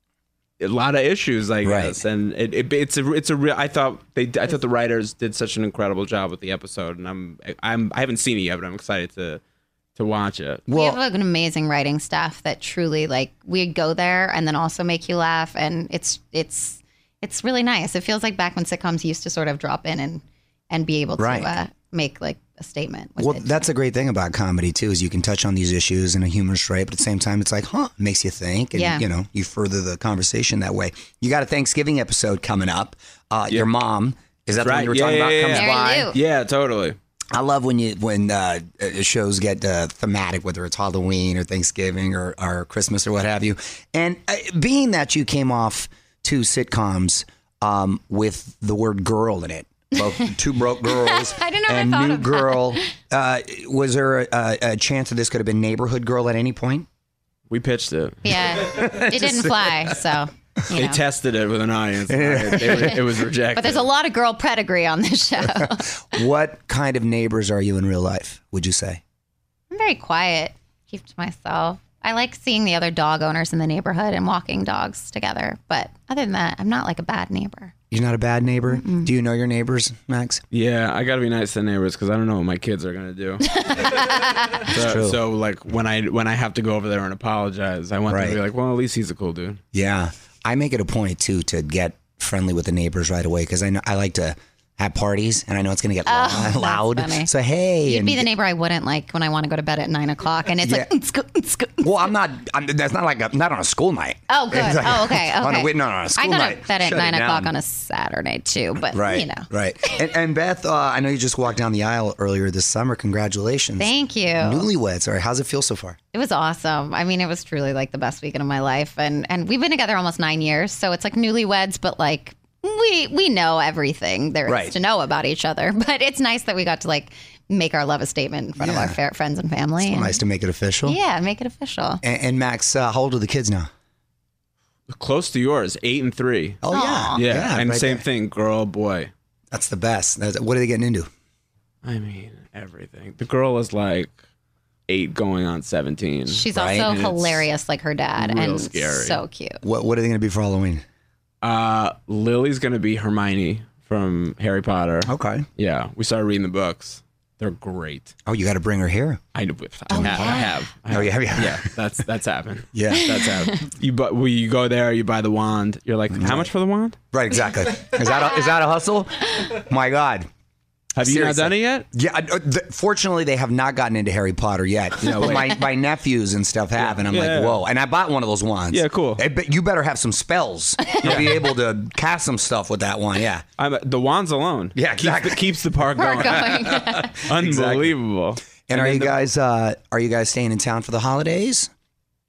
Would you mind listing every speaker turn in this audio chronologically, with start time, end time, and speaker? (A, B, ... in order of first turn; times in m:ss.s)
0:00.6-0:09.4 A
0:01.6-0:02.0 B
0:09.9-0:10.7 A
0:10.7-0:11.0 B
0:10.7-0:23.6 C
0:21.2-0:21.5 B
0:23.2-0:36.1 B
0:28.7-0:29.0 C
0:34.5-0:37.0 A
0:35.5-0:36.2 C
0:37.3-0:56.9 B
0:50.0-0:50.3 C
0:50.9-0:52.9 C
0:57.5-0:59.0 A
0:58.2-1:01.0 C
0:58.8-0:59.4 B
1:00.7-1:03.9 A
1:02.1-1:03.0 B
1:02.6-1:03.0 C
1:03.5-1:06.2 C
1:05.5-1:09.0 B
1:09.7-1:17.7 C
1:17.9-1:20.4 B
1:18.7-1:19.1 C
1:20.5-1:29.6 A
1:23.5-1:24.7 C
1:24.7-1:25.2 B
1:28.1-1:28.4 B
1:29.7-1:38.3 B
1:36.0-1:37.3 C
1:37.9-1:42.0 C
1:40.6-1:40.9 B
1:41.8-1:47.5 B
1:44.3-1:49.5 C
1:48.9-1:56.0 B
1:53.8-1:54.7 C
1:56.1-2:10.2 C
2:04.5-2:04.8 B
2:08.6-2:09.0 B
2:09.8-2:11.0 B
2:10.8-2:12.0 C
2:12.0-2:13.7 B
2:14.9-2:16.6 A
2:16.6-2:18.0 B
2:16.7-2:17.2 C
2:17.1-2:19.1 A
2:19.5-2:21.1 B
2:21.8-2:24.1 A
2:24.9-2:27.5 A
2:26.3-2:29.6 C
2:26.5-2:27.0 B
2:28.2-2:29.2 A
2:29.6-2:30.8 B
2:31.4-2:38.1 A
2:35.0-2:35.4 B
2:38.2-2:39.2 B
2:39.3-2:47.0 A
2:39.9-2:40.6 C
2:40.9-2:41.7 B
2:42.7-2:43.1 B
2:46.1-2:46.5 B
2:47.1-2:50.3 B
2:51.0-2:51.8 A
2:51.0-3:03.4 B
2:55.0-2:55.6 A
2:55.2-2:55.6 C
2:56.8-2:57.6 A
2:58.7-2:59.2 A
3:01.0-3:01.3 A
3:03.6-3:09.2 A
3:04.8-3:08.0 B
3:06.0-3:07.2 C
3:08.7-3:11.7 B